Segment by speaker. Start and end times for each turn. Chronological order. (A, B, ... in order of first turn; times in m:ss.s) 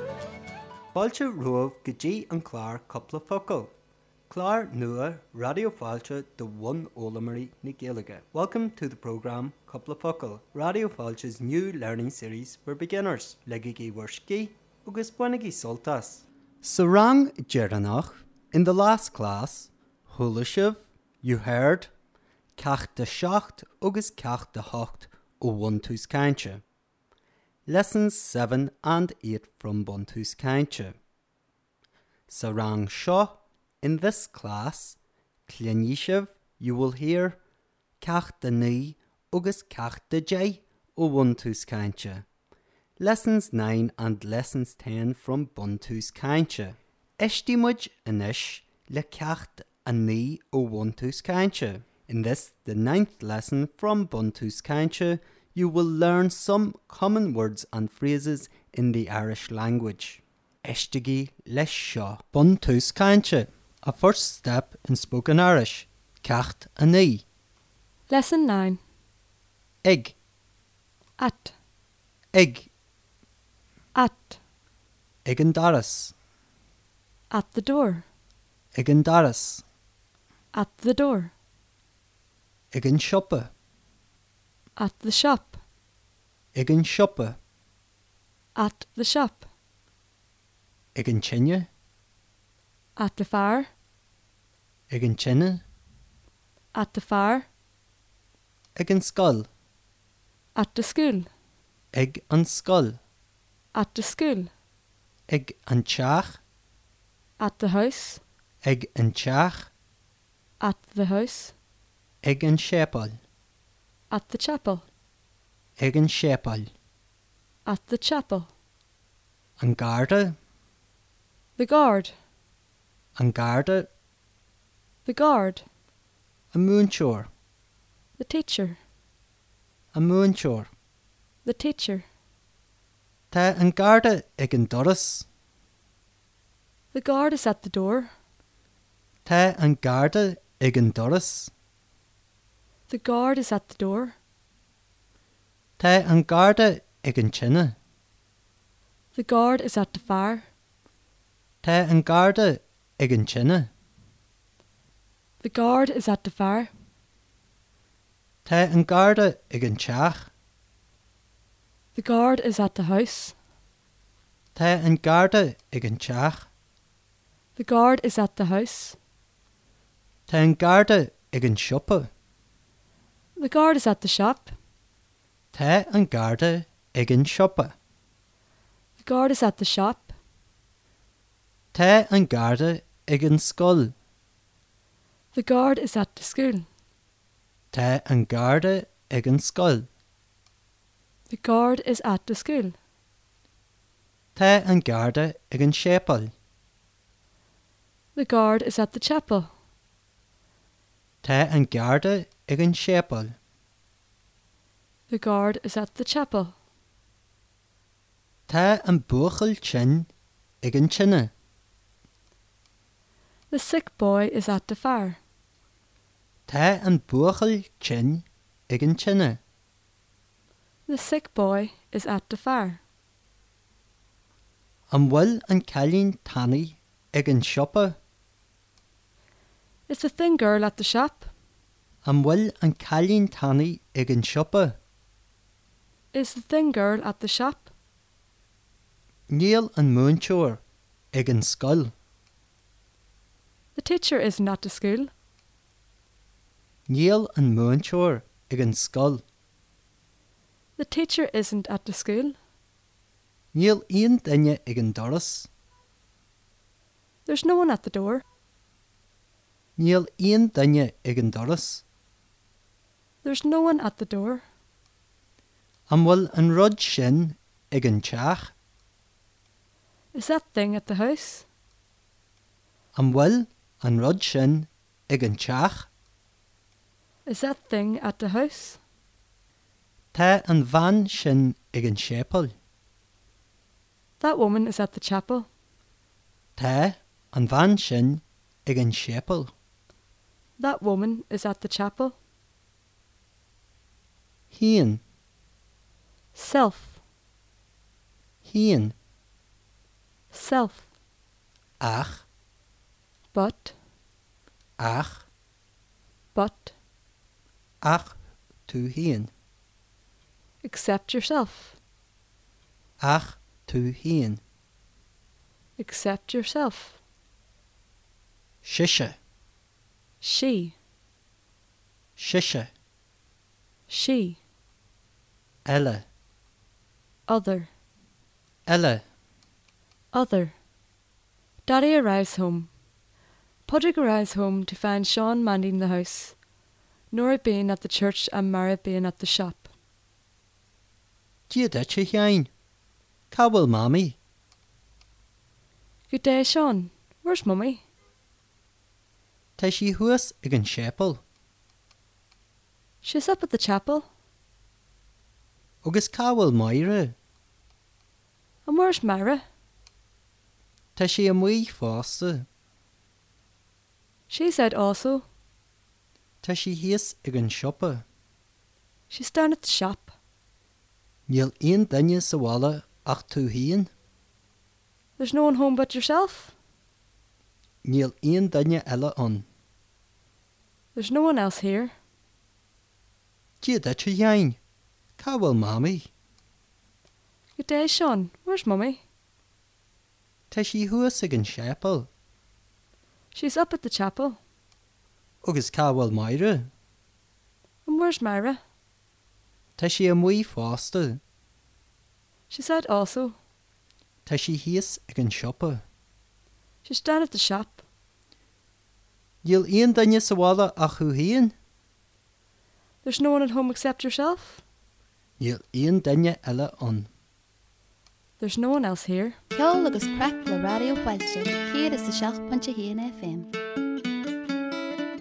0:00.9-0:03.7 A
0:04.3-0:21.9 A
0:22.6-0:26.6 A
0:27.7-0:31.0 A
0:32.3-0:37.4 A
0:38.0-0:42.3 A
0:43.0-1:07.2 A
1:08.1-1:08.8 B
1:09.8-1:10.2 A
1:11.2-1:11.5 B
1:12.3-1:12.7 A
1:13.9-1:14.4 B
1:15.2-1:16.1 A
1:17.3-1:18.0 B
1:18.8-1:19.6 A
1:20.5-1:21.3 B
1:22.7-1:23.5 A
1:24.8-1:25.6 B
1:26.6-1:27.4 A
1:28.6-1:29.5 B
1:31.0-1:31.7 A
1:33.0-1:33.7 B
1:34.9-1:35.6 A
1:36.7-1:37.5 B
1:38.8-1:39.5 A
1:40.6-1:41.3 B
1:41.9-1:43.0 A
1:43.7-1:44.5 B
1:45.3-1:46.4 A
1:47.4-1:48.2 B
1:48.6-1:49.7 A
1:50.6-1:51.5 B
1:52.2-1:53.2 A
1:54.1-1:54.8 B
1:55.8-1:56.7 A
1:57.7-1:58.5 B
1:59.6-2:00.4 A
2:01.6-2:02.1 B
2:03.2-2:03.9 A
2:05.0-2:05.6 B
2:06.5-2:07.3 A
2:08.2-2:08.8 B
2:09.9-2:10.7 A
2:11.4-2:12.1 B
2:13.3-2:15.3 A
2:16.9-2:18.1 B
2:19.2-2:21.5 A
2:22.9-2:24.2 B
2:25.8-2:27.8 A
2:29.2-2:30.5 B
2:31.6-2:33.7 A
2:35.4-2:36.7 B
2:38.4-2:40.3 A
2:42.0-2:43.3 B
2:44.6-2:46.5 A
2:47.6-2:49.0 B
2:50.3-2:52.1 A
2:53.4-2:54.5 B
2:55.5-2:57.8 A
2:59.0-3:00.2 B
3:01.7-3:03.9 A
3:05.3-3:06.7 B
3:07.7-3:09.9 A
3:11.3-3:12.8 B
3:14.4-3:16.3 A
3:18.2-3:19.5 B
3:21.2-3:23.4 A
3:25.1-3:26.5 B
3:28.5-3:30.1 A
3:30.6-3:31.3 A
3:33.5-3:35.2 B
3:36.5-3:39.4 A
3:40.9-3:42.8 B
3:44.9-3:48.0 A
3:49.9-3:51.3 B
3:52.0-3:54.8 A
3:56.1-3:57.7 B
3:59.3-4:00.6 A
4:01.1-4:01.9 A
4:03.8-4:05.1 B
4:06.9-4:09.2 A
4:10.8-4:12.4 B
4:13.5-4:15.5 A
4:17.3-4:18.2 B
4:19.8-4:21.8 A
4:23.2-4:24.4 B
4:25.9-4:28.5 A
4:30.1-4:31.5 B
4:33.0-4:35.9 A
4:37.3-4:38.8 B
4:40.1-4:42.5 A
4:44.2-4:45.5 B
4:46.6-4:49.5 A
4:50.6-4:52.2 B
4:54.5-4:55.0 A
4:56.4-4:57.0 B
4:58.4-4:59.0 A
5:00.3-5:00.8 B
5:01.8-5:02.2 A
5:03.3-5:03.8 B
5:04.8-5:05.3 A
5:06.3-5:06.7 B
5:07.8-5:08.2 A
5:08.7-5:09.3 A
5:10.6-5:11.8 B
5:13.0-5:14.4 A
5:15.8-5:17.0 B
5:18.6-5:19.2 A
5:20.2-5:20.8 B
5:22.2-5:22.7 A
5:23.9-5:24.4 B
5:25.7-5:26.1 A
5:27.3-5:27.7 B
5:28.7-5:29.0 A
5:30.1-5:30.5 B
5:31.6-5:32.7 B
5:33.7-5:36.4 B
5:37.1-5:39.7 B
5:41.5-5:42.5 A
5:43.3-5:44.2 A
5:46.1-5:47.8 B
5:49.6-5:51.2 A
5:53.0-5:54.1 B
5:55.8-5:57.2 A
5:58.6-5:59.4 B
6:01.0-6:02.5 A
6:04.3-6:05.3 B
6:06.4-6:08.0 A
6:09.1-6:10.1 B
6:11.3-6:13.9 A
6:15.2-6:16.5 B
6:17.8-6:19.5 A
6:21.0-6:22.0 B
6:23.6-6:24.6 A
6:25.2-6:26.1 A
6:27.6-6:29.0 B
6:30.5-6:32.1 A
6:33.3-6:34.4 B
6:35.4-6:36.7 A
6:37.8-6:38.6 B
6:39.8-6:41.2 A
6:42.5-6:43.4 B
6:44.3-6:45.8 A
6:46.8-6:47.8 B
6:49.4-6:51.6 A
6:53.0-6:54.6 B
6:55.4-6:57.1 A
6:58.4-6:59.4 B
6:59.5-7:03.5 C